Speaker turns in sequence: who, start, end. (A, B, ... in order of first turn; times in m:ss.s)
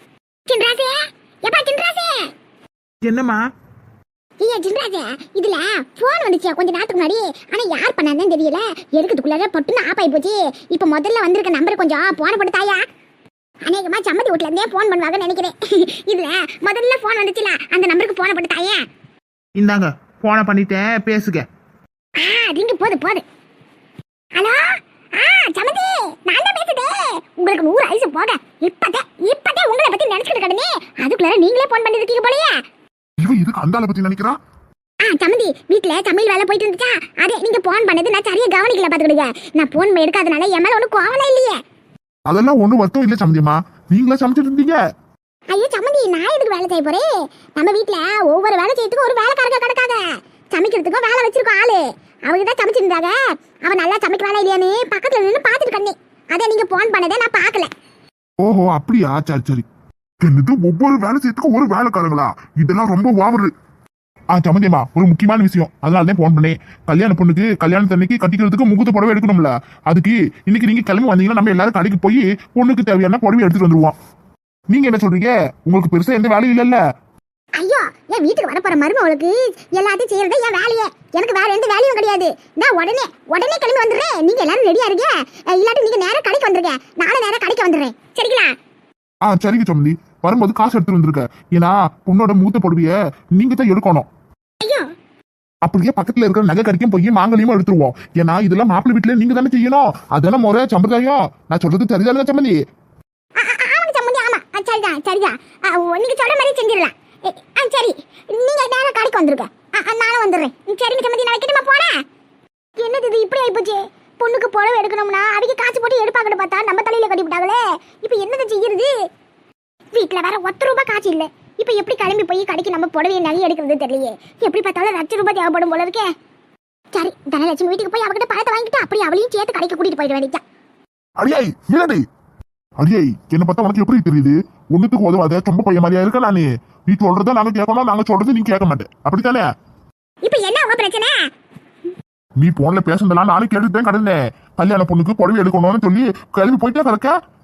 0:00.5-0:02.3 A
0:03.0-0:03.4 B
0:04.4-0:12.8 A
0:13.6-0:18.8 A
0:19.6-0:21.4 B
0:22.2-0:23.2 A
0:24.4-0:32.6 A
0:33.2-0:34.4 C
0:35.0-0:41.6 A
0:42.2-0:44.8 C
0:45.5-0:57.7 A
0:58.4-0:59.6 C
1:00.2-1:03.5 C
1:04.3-1:13.9 C
1:14.7-1:16.8 C
1:17.6-1:28.5 A
1:29.2-1:34.1 C
1:34.6-1:34.9 A
1:35.6-1:42.6 C
1:43.4-1:52.0 A
1:52.8-1:58.9 A
1:59.9-2:06.1 A
2:06.9-2:10.4 A
2:11.2-2:12.0 C
2:12.8-2:19.4 C
2:20.2-2:21.3 A
2:22.4-2:27.1 C